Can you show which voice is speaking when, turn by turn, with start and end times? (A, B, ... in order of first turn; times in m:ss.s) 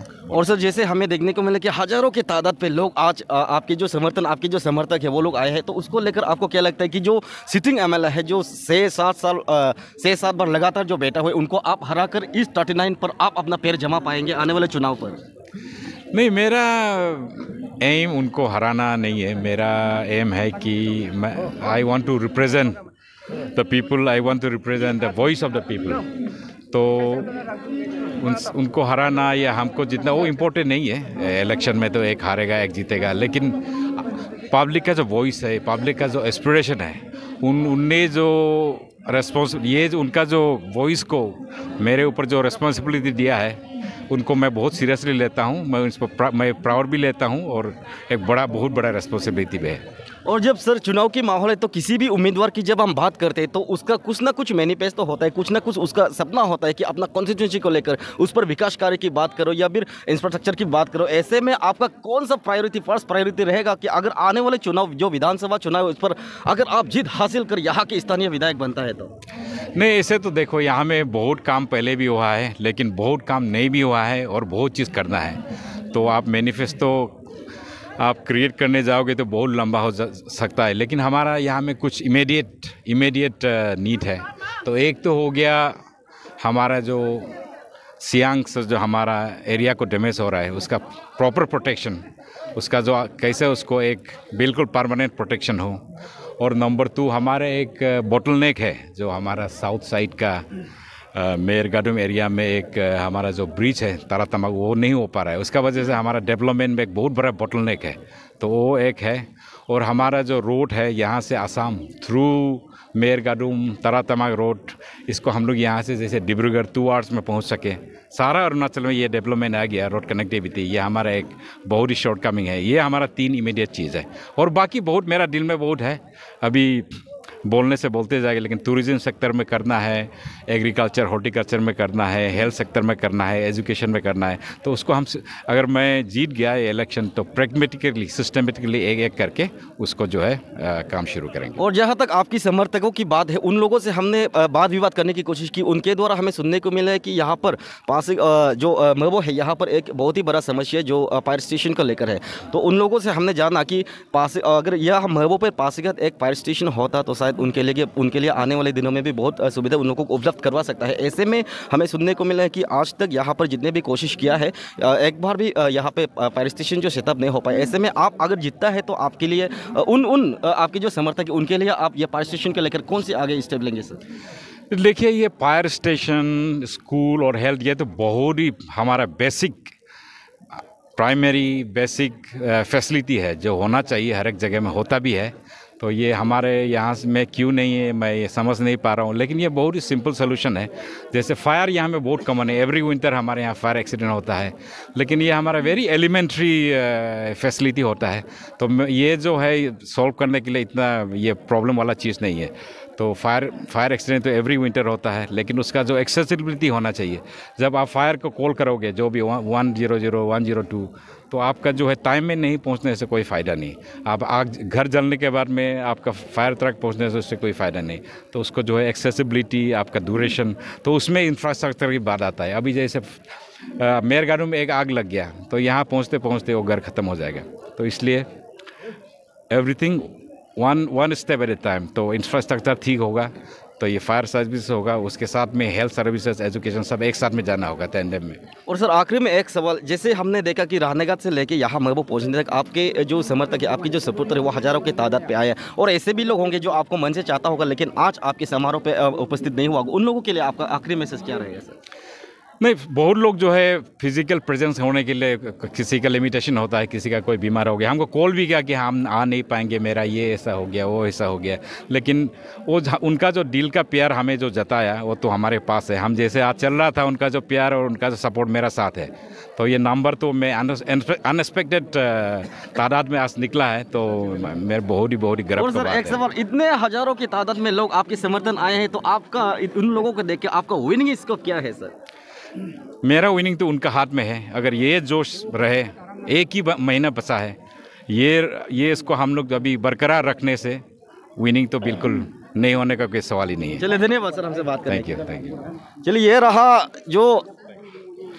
0:00.3-0:15.2 A
0:16.1-0:22.8 B
0:23.5-0:26.0 B
0:26.7-0:27.3 B
0:28.2-0:43.6 B
0:44.1-0:49.8 B
0:50.3-1:09.1 A
1:09.8-1:15.4 B
1:15.9-1:17.2 B
1:18.0-1:25.7 B
1:26.4-1:27.3 B
1:28.0-1:32.0 B
1:32.6-1:35.8 B
1:36.4-1:40.4 B
1:41.1-2:21.6 B
2:21.6-2:54.0 A
2:54.7-2:59.7 B
3:00.6-3:43.2 B
3:43.8-3:48.3 B
3:49.5-3:58.4 B
3:58.7-4:11.8 A
4:12.6-4:36.2 B
4:35.6-4:41.9 A
4:43.0-4:47.6 B
4:48.1-4:50.8 B
4:51.4-4:53.8 B
4:53.8-4:55.2 A
4:54.9-4:55.6 B
4:56.0-4:57.4 A